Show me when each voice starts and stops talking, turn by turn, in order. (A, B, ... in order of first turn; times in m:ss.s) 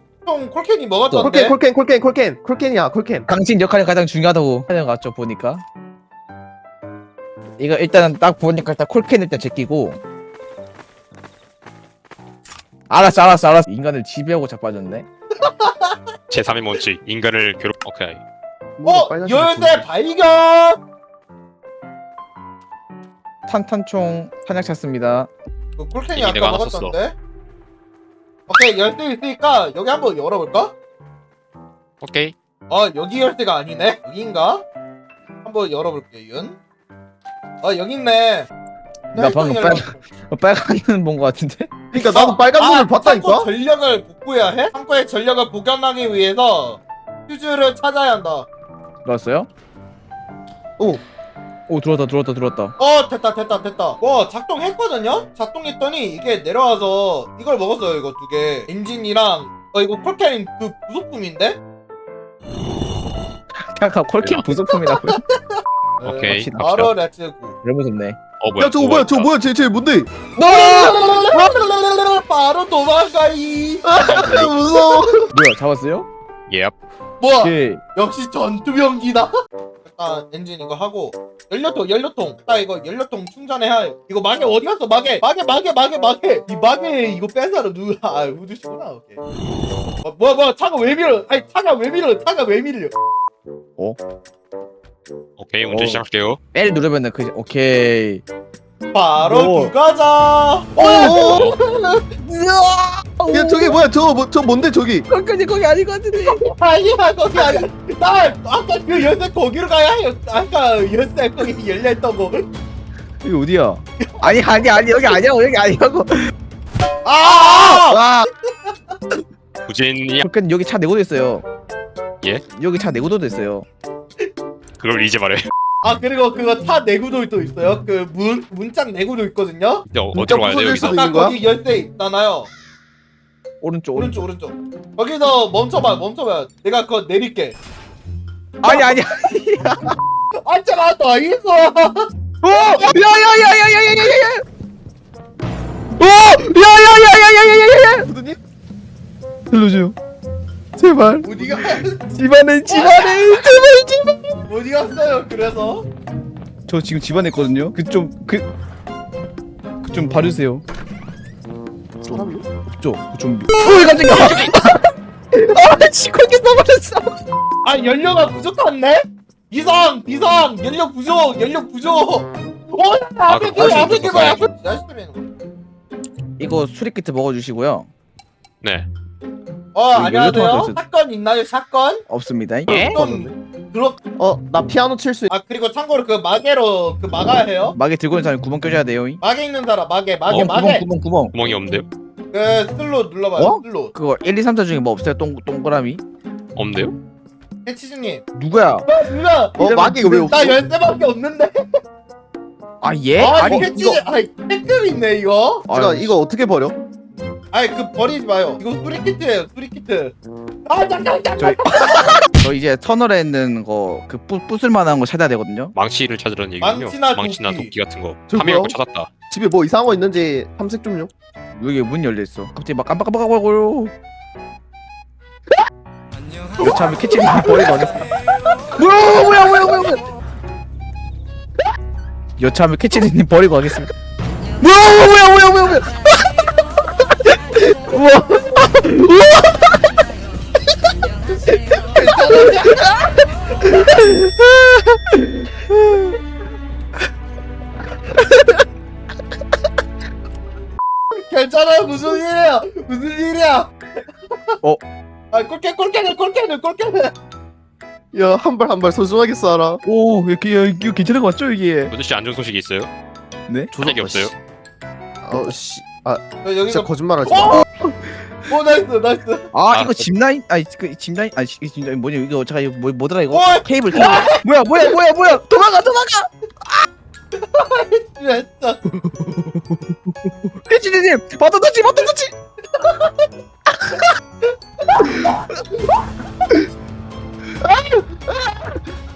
0:00.2-0:01.6 A
0:01.1-0:03.3 B
0:03.3-0:05.6 C
0:07.6-0:10.0 C
0:12.9-0:15.1 C
0:15.4-0:16.0 A
0:16.3-0:18.2 D
0:18.8-0:19.9 B
0:18.8-0:20.8 A
0:23.5-0:25.3 C
0:25.8-0:27.2 A
0:26.2-0:27.0 D
0:28.5-0:30.8 A
0:32.0-0:32.4 D
0:32.7-0:34.6 A
0:35.4-0:36.6 A
0:37.6-0:38.5 A
0:39.1-0:40.0 A
0:39.1-0:41.7 C
0:41.9-0:43.5 B
0:42.0-0:48.5 A
0:49.0-0:49.5 C
0:51.7-0:52.7 C
0:52.8-1:01.6 A
1:03.5-1:05.2 C
1:04.2-1:04.5 D
1:04.8-1:05.6 A
1:06.0-1:06.9 D
1:06.1-1:06.6 C
1:06.6-1:07.6 A
1:07.6-1:08.2 C
1:08.4-1:09.3 D
1:08.6-1:10.1 B
1:10.4-1:11.6 C
1:10.4-1:14.0 A
1:13.8-1:15.3 B
1:14.0-1:14.6 D
1:15.3-1:16.1 C
1:16.5-1:16.8 D
1:17.2-1:19.3 A
1:17.4-1:17.8 C
1:19.8-1:29.2 A
1:30.0-1:32.9 A
1:35.4-1:36.4 D
1:35.7-1:36.0 C
1:36.5-1:38.2 C
1:38.9-1:42.0 A
1:39.2-1:39.7 C
1:40.8-1:41.5 C
1:40.8-1:41.5 B
1:41.2-1:41.6 D
1:42.2-1:43.8 C
1:43.3-1:45.1 B
1:45.1-1:46.4 C
1:46.2-1:52.5 A
1:47.4-1:47.6 C
1:53.2-1:56.3 C
1:54.0-1:54.3 A
1:57.0-1:59.0 A
1:57.2-1:58.2 C
1:59.6-2:00.2 D
2:00.2-2:01.5 C
2:02.5-2:03.7 C
2:04.8-2:05.5 D
2:05.8-2:09.8 A
2:09.9-2:11.0 D
2:10.1-2:11.4 B
2:10.8-2:12.5 A
2:13.6-2:14.2 C
2:14.0-2:17.6 A
2:18.6-2:19.7 C
2:18.6-2:19.0 A
2:19.7-2:20.0 B
2:20.4-2:22.1 A
2:22.4-2:24.4 C
2:22.6-2:23.0 A
2:26.0-2:28.1 C
2:28.0-2:28.4 B
2:29.5-2:30.0 C
2:30.8-2:34.2 C
2:31.2-2:32.1 A
2:32.7-2:33.1 A
2:34.5-2:35.9 A
2:36.7-2:38.5 C
2:39.8-2:40.6 C
2:42.1-2:42.5 B
2:42.7-2:47.1 C
2:44.1-2:44.5 D
2:47.6-2:55.2 A
2:53.3-2:54.5 D
2:53.6-2:54.4 C
2:56.4-2:57.9 C
2:58.6-2:58.9 D
2:59.8-3:02.0 A
2:59.9-3:00.8 C
3:02.1-3:03.0 C
3:02.7-3:04.0 A
3:02.7-3:03.4 B
3:04.2-3:05.3 B
3:05.3-3:07.8 A
3:07.8-3:09.2 C
3:09.2-3:10.8 A
3:10.3-3:11.4 C
3:11.3-3:11.9 D
3:12.3-3:13.9 A
3:13.4-3:16.0 C
3:16.6-3:17.0 D
3:17.6-3:18.2 A
3:18.4-3:18.9 C
3:18.9-3:21.6 A
3:19.6-3:20.6 B
3:19.6-3:20.2 C
3:22.8-3:24.0 C
3:23.2-3:25.7 A
3:25.7-3:26.2 C
3:25.7-3:26.8 B
3:27.5-3:30.2 A
3:30.7-3:32.3 A
3:31.4-3:35.8 C
3:35.8-3:39.1 D
3:36.6-3:37.7 A
3:38.3-3:38.8 B
3:39.3-3:41.1 B
3:41.6-3:43.9 C
3:46.6-3:48.1 C
3:47.4-3:47.8 B
3:48.7-3:50.1 C
3:52.4-3:53.9 C
3:54.6-3:55.9 C
3:57.7-4:00.0 C
4:01.7-4:02.9 A
4:01.7-4:03.0 C
4:03.6-4:06.2 C
4:11.1-4:14.6 A
4:15.3-4:17.1 A
4:18.1-4:19.8 B
4:19.8-4:21.9 C
4:21.9-4:22.9 D
4:23.7-4:24.4 B
4:23.8-4:24.3 D
4:25.2-4:27.7 B
4:26.4-4:27.6 A
4:28.5-4:29.5 A
4:29.5-4:36.3 C
4:29.7-4:30.1 D
4:33.3-4:34.4 A
4:37.3-4:38.8 A
4:40.5-4:42.3 C
4:42.7-4:43.3 A
4:44.4-4:46.6 A
4:47.6-4:48.8 B